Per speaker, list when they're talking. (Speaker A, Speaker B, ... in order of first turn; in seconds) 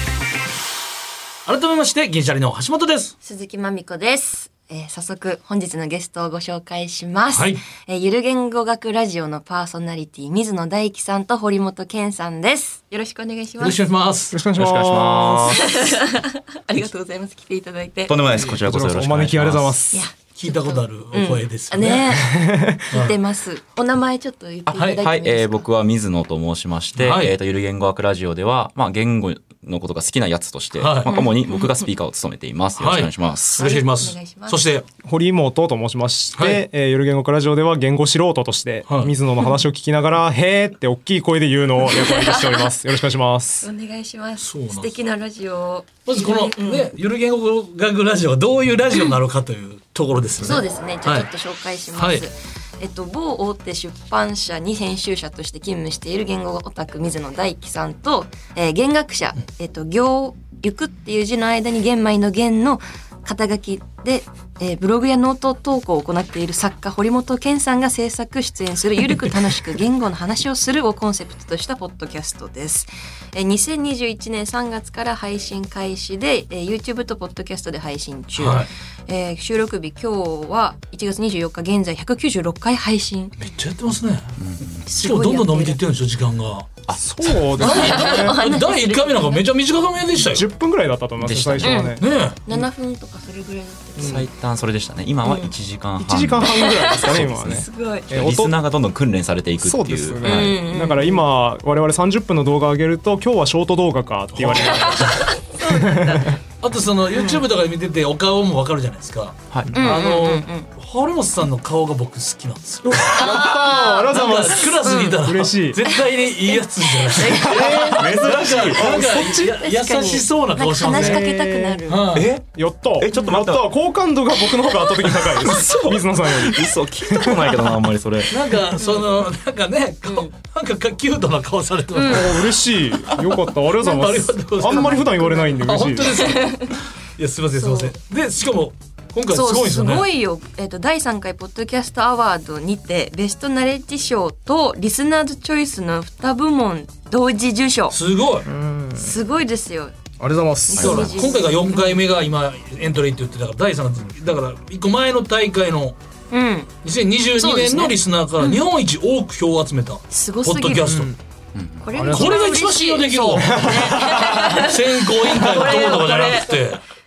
Speaker A: 1.5-3.1, 7.3-7.6, 13.6-14.4, 20.3-22.2, 22.9-23.1, 27.0-27.4, 30.8-31.1, 32.8-34.9, 36.4-36.6, 38.9-39.1, 44.4-45.0, 46.0-51.3, 51.9-52.3, 78.4-78.7, 83.4-84.4, 85.0-86.7, 87.6-90.5, 92.0-92.4, 104.3-105.1, 106.6-121.2, 121.9-122.3, 125.4-126.0, 128.3-132.5, 133.8-140.1, 147.9-148.5, 150.8-156.0, 156.8-161.1, 162.1-166.8
Speaker B: 3.2-13.8, 15.5-18.2, 19.9-25.7, 31.1-31.9, 33.5-34.6, 41.9-42.7, 43.6-46.9, 50.4-83.4, 84.9-85.8, 87.6-89.5, 91.6-94.3, 95.2-95.5, 96.5-98.1, 100.2-101.3, 104.6-106.4, 107.1-107.5, 109.7-110.7, 113.2-114.1, 114.7-115.2, 115.9-118.1, 118.8-122.2, 123.1-123.4, 128.8-129.1, 130.1-130.3, 131.9-132.4, 134.6-136.7, 137.6-137.9, 139.3-148.0, 149.0-150.0, 150.7-152.0, 156.3-156.7, 157.4-158.6, 160.1-160.9, 161.8-166.6
Speaker C: 14.3-15.7, 18.4-20.1, 22.2-23.0, 35.0-43.7, 86.9-88.5, 90.2-92.7, 94.0-94.3, 96.0-98.6, 99.6-106.4, 109.7-110.0, 112.9-115.8, 117.2-119.7, 120.8-121.8, 122.4-127.9, 132.1-136.4, 148.5-149.2, 150.2-151.1, 160.8-161.2, 161.9-162.4, 163.4-164.7
Speaker D: 14.6-15.9, 18.1-19.8, 24.7-33.7, 84.4-84.9, 91.2-92.0, 94.0-100.6, 117.7-119.0, 122.1-123.7, 126.2-128.3, 150.7-151.3, 161.5-162.0